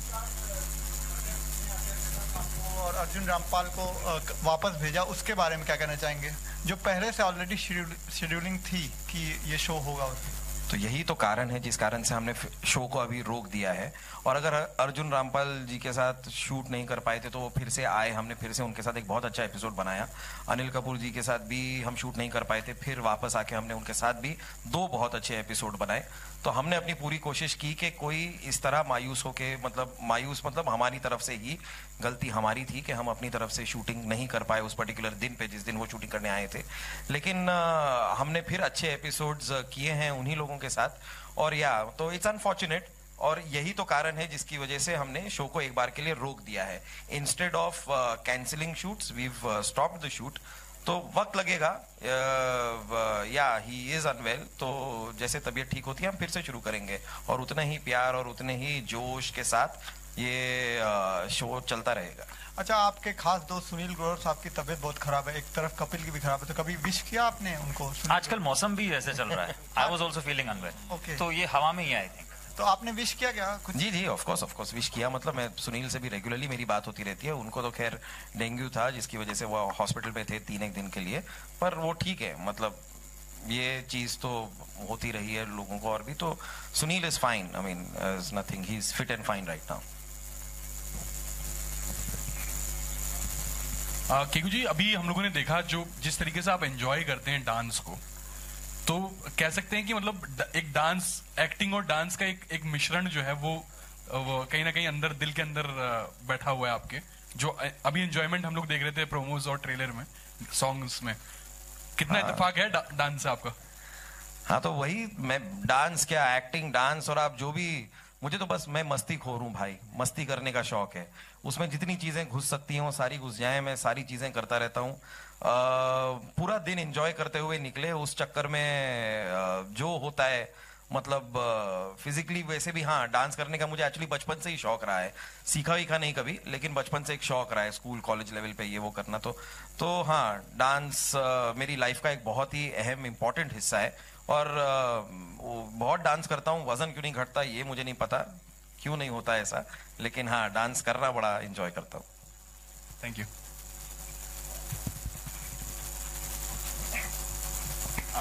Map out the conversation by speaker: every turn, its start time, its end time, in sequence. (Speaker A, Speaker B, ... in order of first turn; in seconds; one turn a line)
Speaker A: 1.4-10.2
Speaker B: 10.7-62.3
Speaker A: 62.6-68.4
Speaker C: 68.1-72.3
Speaker A: 70.9-71.2
Speaker A: 72.5-73.8
Speaker B: 73.7-82.8
Speaker B: 83.4-89.8
Speaker D: 94.1-98.0
Speaker D: 98.8-111.2
Speaker D: 112.0-113.5
Speaker B: 112.1-112.5
Speaker B: 114.5-152.1
Speaker D: 153.0-153.3